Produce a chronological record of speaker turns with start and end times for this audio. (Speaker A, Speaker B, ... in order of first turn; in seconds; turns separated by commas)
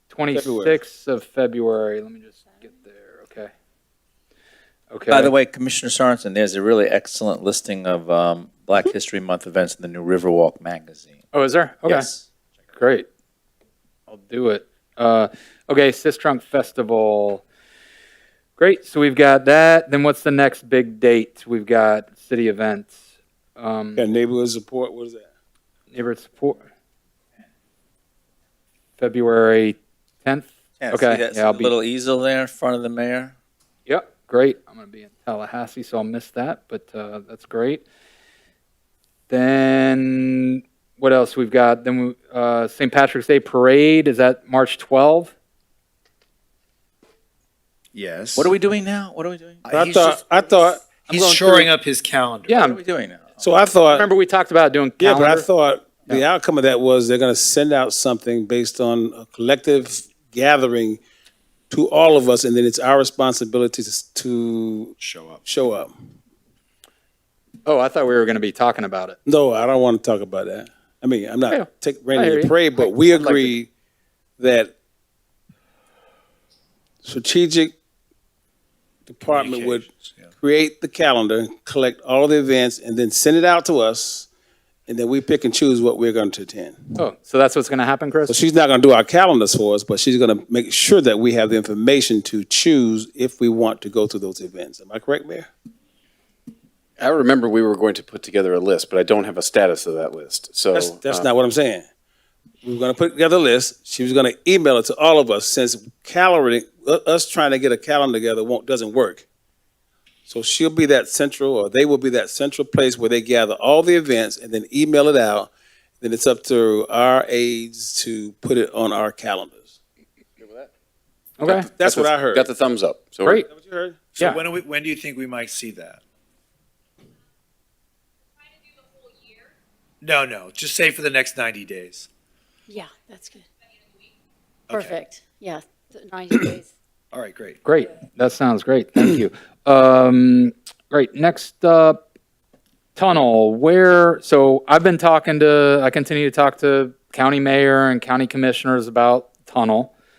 Speaker A: 0.1-3.5, Speaker B: 0.3-0.8, Speaker A: 4.9-5.3, Speaker C: 5.1-11.2, Speaker A: 11.3-12.1, Speaker C: 11.9-12.2, Speaker A: 12.7-13.1, Speaker A: 14.1-17.4, Speaker A: 18.6-22.9, Speaker A: 23.6-24.0, Speaker B: 24.0-25.3, Speaker A: 25.9-26.6, Speaker A: 29.0-31.7, Speaker C: 30.8-33.3, Speaker A: 33.9-37.8, Speaker A: 39.3-45.3, Speaker D: 47.9-48.5, Speaker C: 48.4-49.6, Speaker D: 49.6-50.2, Speaker B: 49.7-51.7, Speaker D: 51.1-52.5, Speaker A: 52.5-52.8, Speaker C: 52.5-53.4, Speaker B: 53.4-54.1, Speaker A: 53.9-55.5, Speaker B: 55.0-61.0, Speaker B: 61.7-65.9, Speaker D: 65.0-65.4, Speaker A: 67.7-69.2, Speaker B: 69.3-73.7, Speaker A: 71.5-73.6, Speaker B: 74.4-74.7, Speaker B: 77.0-77.7, Speaker B: 79.1-84.3, Speaker D: 79.3-80.3, Speaker B: 84.9-86.8, Speaker A: 87.0-88.4, Speaker B: 88.3-95.5, Speaker E: 97.0-101.3, Speaker B: 100.7-101.8, Speaker B: 102.6-109.2, Speaker B: 110.3-115.5, Speaker B: 116.0-119.7, Speaker E: 120.4-120.7, Speaker A: 121.4-121.7, Speaker E: 121.4-123.4, Speaker B: 121.8-122.5, Speaker B: 123.5-124.2, Speaker D: 124.2-126.0, Speaker D: 130.0-132.1, Speaker F: 132.7-133.4, Speaker F: 134.7-136.7, Speaker D: 137.1-137.6, Speaker A: 137.7-142.0, Speaker A: 142.9-149.9